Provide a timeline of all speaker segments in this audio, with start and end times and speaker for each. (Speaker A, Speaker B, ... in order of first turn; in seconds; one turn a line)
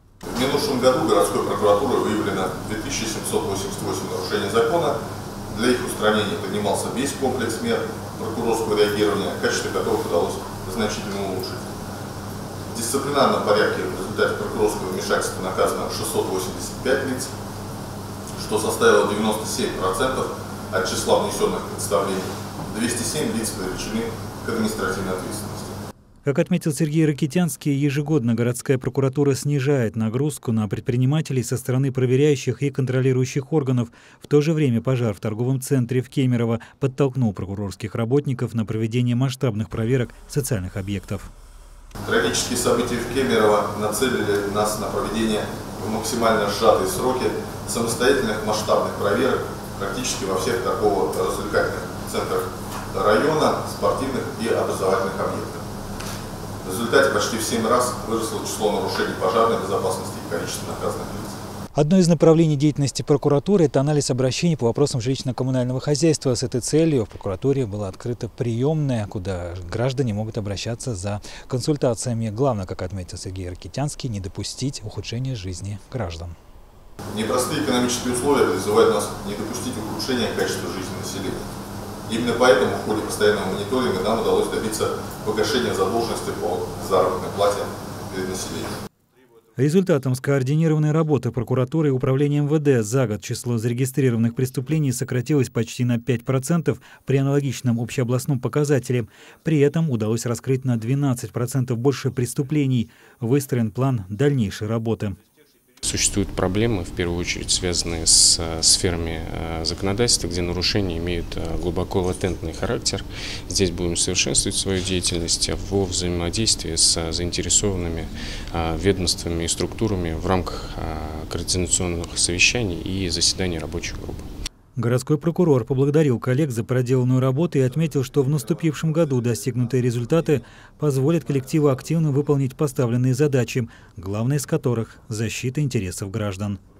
Speaker A: 0.3-5.0
Speaker A: 5.5-11.7
Speaker A: 12.7-17.3
Speaker A: 18.4-25.8
Speaker B: 26.2-41.3
Speaker A: 42.0-55.6
Speaker A: 56.6-61.4
Speaker B: 61.7-76.3
Speaker A: 77.1-81.4
Speaker A: 82.1-88.7
Speaker B: 89.6-105.2
Speaker C: 105.8-124.3
Speaker B: 124.8-136.6